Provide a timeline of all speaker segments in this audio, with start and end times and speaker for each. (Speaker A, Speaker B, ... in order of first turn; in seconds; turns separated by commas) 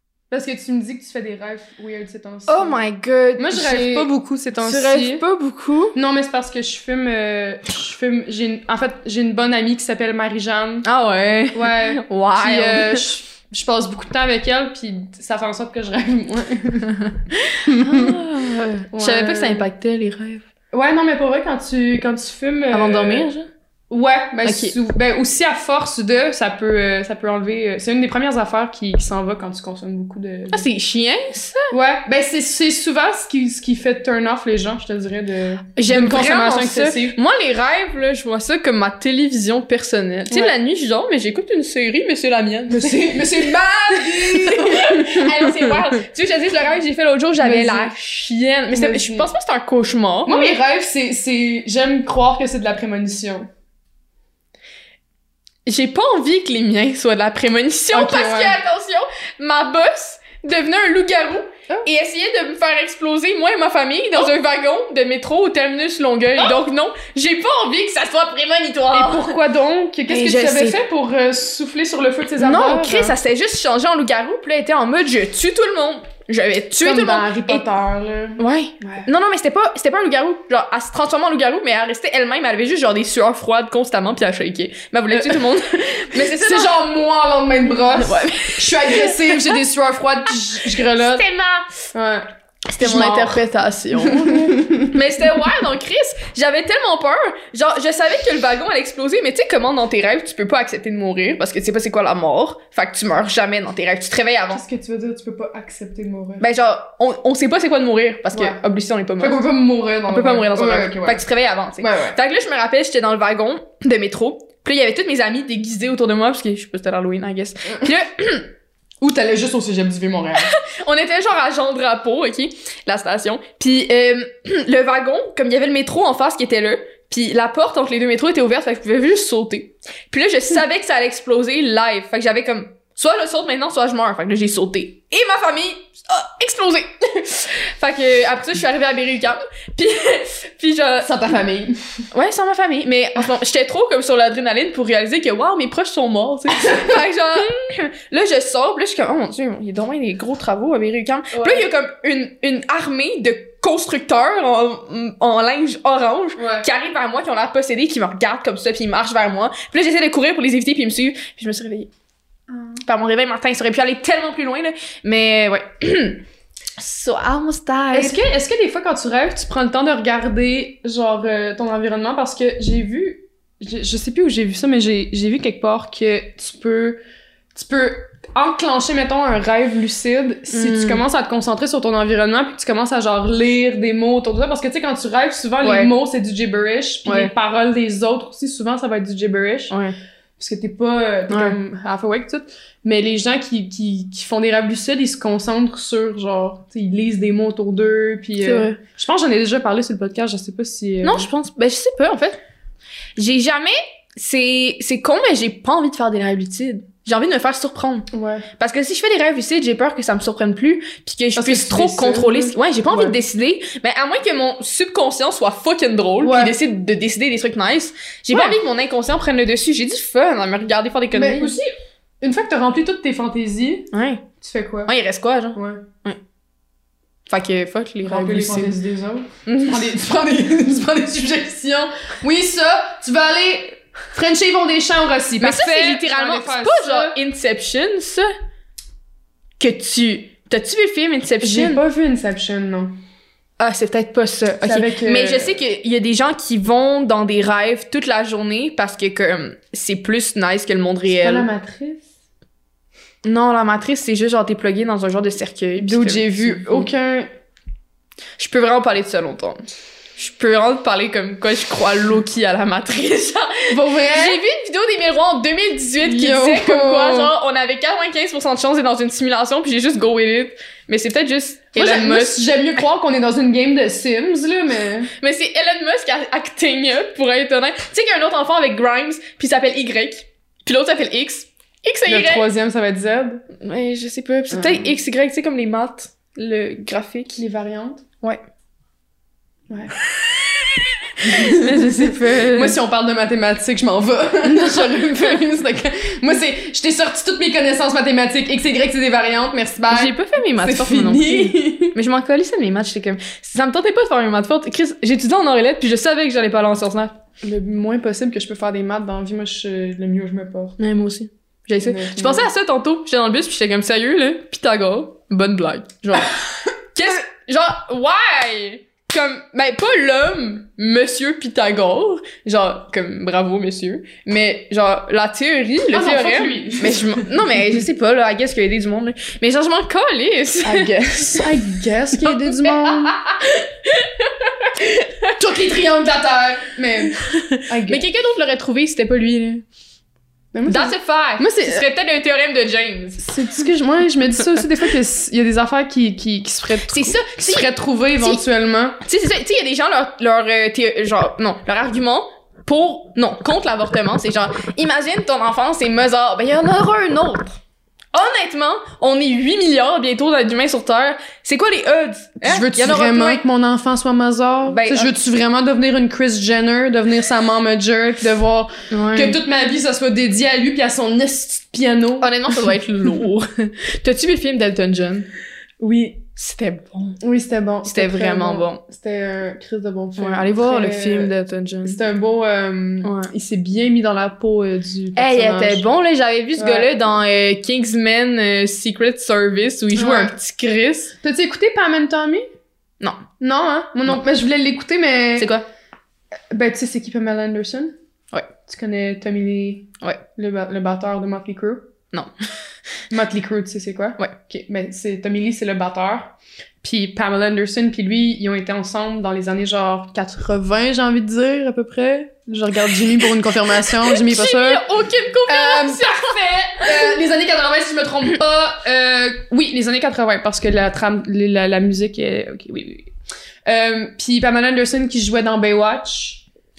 Speaker A: 0.3-2.8, Speaker B: 2.5-6.0, Speaker A: 3.4-5.2, Speaker A: 6.0-10.9, Speaker B: 10.8-13.1, Speaker A: 11.5-16.9, Speaker A: 17.6-18.2, Speaker B: 17.6-20.4, Speaker A: 18.9-19.6, Speaker A: 20.7-23.3, Speaker B: 22.7-23.5, Speaker A: 23.9-30.6, Speaker B: 24.4-24.8, Speaker B: 30.5-31.7, Speaker A: 31.7-37.2, Speaker B: 35.8-50.6, Speaker A: 42.7-46.0, Speaker A: 47.4-47.9, Speaker A: 48.7-49.3, Speaker A: 50.3-53.5, Speaker B: 55.7-69.3, Speaker A: 57.9-58.6, Speaker A: 68.9-73.1, Speaker B: 70.1-70.8, Speaker B: 72.4-77.7, Speaker A: 76.8-79.1, Speaker B: 78.4-86.8, Speaker A: 85.1-85.5, Speaker A: 86.1-91.2, Speaker B: 88.0-89.6, Speaker B: 90.7-91.7, Speaker A: 91.9-93.4, Speaker B: 92.7-104.6, Speaker A: 94.0-94.9, Speaker A: 104.5-106.5, Speaker B: 106.4-109.5, Speaker A: 108.3-108.6, Speaker A: 109.2-111.2, Speaker B: 110.1-118.5, Speaker A: 111.8-112.2, Speaker A: 119.0-120.5, Speaker B: 120.4-141.3, Speaker A: 141.0-142.1, Speaker B: 142.1-161.9, Speaker A: 151.3-151.7, Speaker A: 156.4-156.7, Speaker A: 162.5-162.8, Speaker B: 162.8-166.2, Speaker B: 166.8-168.2, Speaker A: 167.9-177.0, Speaker A: 177.5-189.7, Speaker B: 180.5-181.0, Speaker B: 185.6-185.9, Speaker B: 187.1-187.3, Speaker B: 189.7-189.9, Speaker A: 190.4-201.3, Speaker B: 191.3-191.6, Speaker B: 198.4-198.8, Speaker B: 201.0-202.4, Speaker B: 203.2-221.6, Speaker A: 208.1-208.5, Speaker A: 211.4-213.2, Speaker A: 216.2-216.6, Speaker A: 218.3-218.6, Speaker A: 221.1-223.9, Speaker B: 223.9-224.2, Speaker A: 224.4-224.9, Speaker B: 224.9-226.2, Speaker A: 225.6-225.8, Speaker B: 227.3-228.8, Speaker A: 228.1-237.2, Speaker B: 229.5-229.9, Speaker B: 235.4-238.3, Speaker B: 239.6-241.8, Speaker A: 241.4-242.9, Speaker B: 243.6-251.5, Speaker A: 244.6-245.6, Speaker A: 251.1-252.1, Speaker B: 253.2-256.9, Speaker A: 255.8-257.3, Speaker B: 258.4-259.6, Speaker B: 260.2-272.5, Speaker A: 263.7-264.4, Speaker A: 266.0-267.3, Speaker A: 271.8-275.1, Speaker B: 275.2-282.5, Speaker A: 282.1-283.4, Speaker B: 283.6-287.4, Speaker A: 284.5-284.9, Speaker A: 287.4-288.1, Speaker B: 290.8-292.8, Speaker A: 291.2-301.9, Speaker B: 294.5-295.4, Speaker B: 299.9-307.2, Speaker A: 307.4-310.8, Speaker B: 310.8-316.3, Speaker A: 311.8-312.5, Speaker B: 316.9-331.5, Speaker A: 325.9-327.3, Speaker A: 330.6-333.2, Speaker B: 332.2-335.3, Speaker A: 335.4-338.0, Speaker B: 337.1-339.6, Speaker A: 340.5-341.8, Speaker B: 340.7-343.7, Speaker A: 343.2-349.0, Speaker B: 346.9-348.4, Speaker B: 349.0-357.6, Speaker B: 358.1-363.4, Speaker A: 362.4-372.5, Speaker B: 364.7-365.2, Speaker B: 368.9-369.4, Speaker B: 372.2-375.3, Speaker A: 375.8-376.2, Speaker B: 376.4-377.2, Speaker A: 377.2-381.3, Speaker B: 377.8-378.8, Speaker B: 380.2-382.0, Speaker A: 381.9-385.8, Speaker B: 383.0-383.3, Speaker B: 385.2-391.1, Speaker A: 386.6-386.9, Speaker A: 389.9-390.3, Speaker A: 391.2-392.5, Speaker A: 393.4-395.5, Speaker B: 395.4-395.6, Speaker A: 396.5-397.9, Speaker A: 398.7-401.9, Speaker A: 403.1-414.8, Speaker B: 414.1-417.1, Speaker A: 415.5-423.1, Speaker A: 423.6-426.4